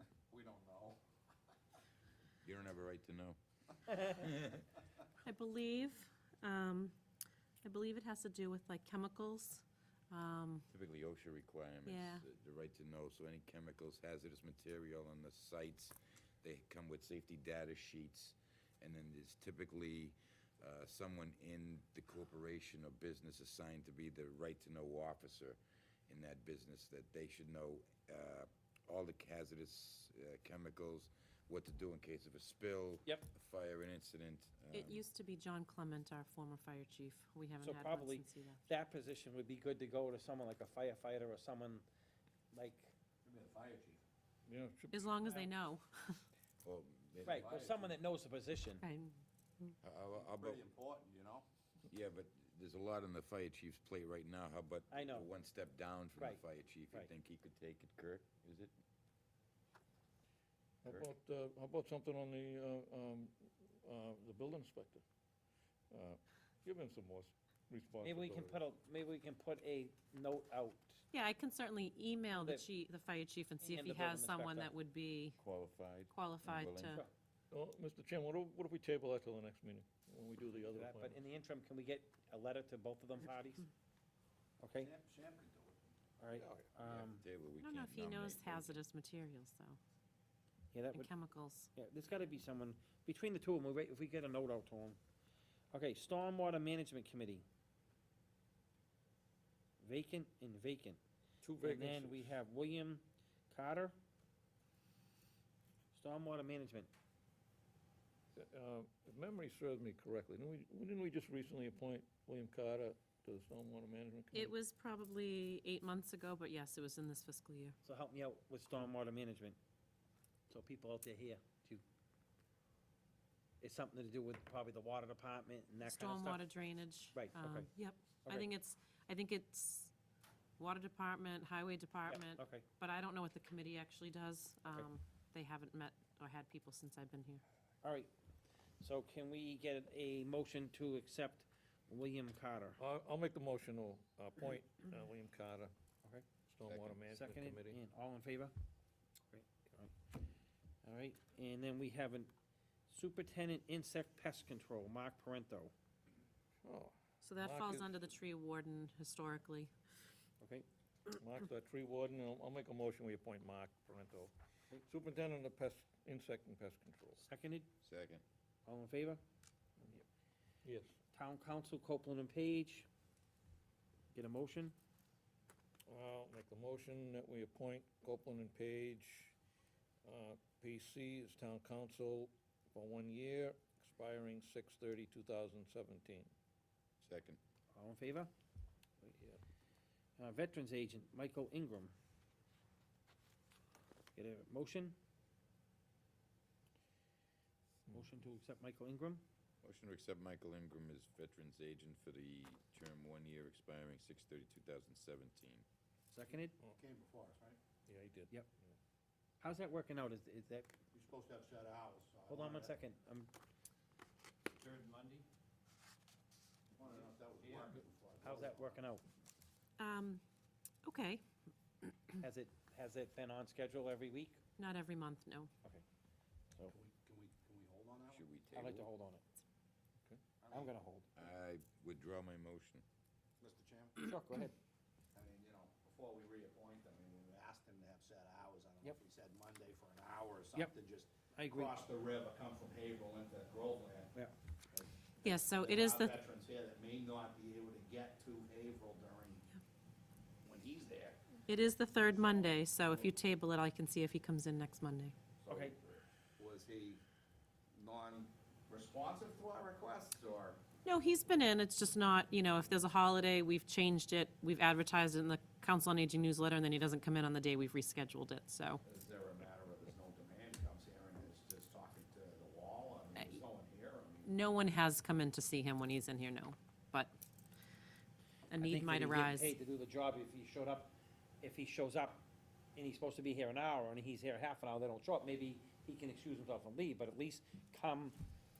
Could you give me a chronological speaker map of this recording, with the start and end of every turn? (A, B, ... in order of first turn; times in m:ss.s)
0:00.3-0:01.0 A
0:02.4-0:04.7 B
0:05.2-0:07.0 C
0:07.6-0:10.6 C
0:10.7-0:35.0 B
0:11.8-0:12.2 C
0:34.7-0:38.6 C
0:37.6-0:41.8 D
0:42.5-0:42.9 D
0:43.2-0:44.0 A
0:44.5-0:45.0 E
0:44.9-0:46.2 C
0:46.6-0:47.5 B
0:47.2-0:47.9 A
0:47.2-0:48.8 D
0:48.8-0:49.8 C
0:49.8-0:50.6 B
0:50.1-0:51.4 A
0:51.9-0:58.7 B
0:54.9-0:55.3 D
0:56.2-0:57.1 D
1:00.8-1:05.0 E
1:05.9-1:08.6 E
1:08.0-1:11.0 D
1:11.1-1:15.4 C
1:12.3-1:12.7 D
1:13.6-1:14.7 D
1:15.4-1:17.0 B
1:16.1-1:17.0 C
1:17.5-1:21.2 E
1:20.7-1:23.7 D
1:24.6-1:24.9 D
1:24.7-1:25.8 A
1:26.2-1:27.2 D
1:26.3-1:26.7 E
1:26.8-1:28.8 B
1:27.6-1:29.8 C
1:30.7-1:31.1 D
1:30.9-1:31.7 C
1:31.7-1:35.0 D
1:35.7-1:37.4 D
1:39.8-1:41.0 D
1:41.4-1:42.4 E
1:41.6-1:44.0 D
1:45.9-1:46.9 D
1:48.4-1:54.5 E
1:54.3-1:57.8 C
1:57.8-1:59.6 D
2:00.5-2:01.8 D
2:03.6-2:06.4 D
2:05.8-2:09.9 C
2:07.1-2:07.7 D
2:08.2-2:08.5 D
2:10.6-2:17.4 C
2:12.1-2:12.7 D
2:17.8-2:18.1 D
2:18.8-2:22.8 D
2:22.8-2:25.7 E
2:26.5-2:27.8 E
2:26.6-2:27.0 B
2:27.1-2:28.5 D
2:29.3-2:29.9 D
2:30.8-2:32.3 D
2:32.9-2:35.7 D
2:36.6-2:38.1 E
2:37.2-2:39.7 C
2:40.4-2:40.6 D
2:41.1-2:44.3 E
2:44.8-2:47.2 E
2:47.2-2:47.7 D
2:47.8-2:48.2 B
2:48.6-2:49.2 D
2:50.6-2:51.0 E
2:51.1-2:52.9 D
2:54.1-2:54.7 D
2:55.9-2:59.3 E
3:00.0-3:06.3 E
3:07.0-3:07.4 B
3:07.7-3:08.3 D
3:10.2-3:11.9 D
3:14.2-3:15.0 D
3:17.9-3:19.2 D
3:19.6-3:25.6 B
3:26.1-3:26.6 D
3:26.3-3:27.6 A
3:27.9-3:28.7 E
3:29.4-3:30.7 D
3:30.9-3:32.8 A
3:32.3-3:33.3 D
3:34.5-3:35.2 D
3:36.7-3:38.8 A
3:36.8-3:39.0 D
3:39.8-3:40.2 C
3:40.8-3:41.2 C
3:42.2-3:44.4 D
3:44.6-3:45.5 C
3:46.6-3:48.2 A
3:48.1-3:48.9 B
3:48.5-3:49.2 D
3:50.4-3:50.7 A
3:50.5-3:51.1 D
3:51.2-3:52.8 B
3:53.4-3:54.1 A
3:54.0-3:54.6 D
3:55.1-4:04.1 A
4:01.4-4:01.8 D
4:04.7-4:09.5 A
4:05.2-4:06.2 C
4:10.4-4:13.1 A
4:11.5-4:15.2 C
4:15.5-4:15.8 D
4:15.6-4:17.0 A
4:17.7-4:20.6 A
4:20.8-4:28.8 C
4:28.8-4:34.3 A
4:34.2-4:37.1 C
4:38.5-4:39.5 C
4:38.6-4:42.2 D
4:42.7-4:48.2 D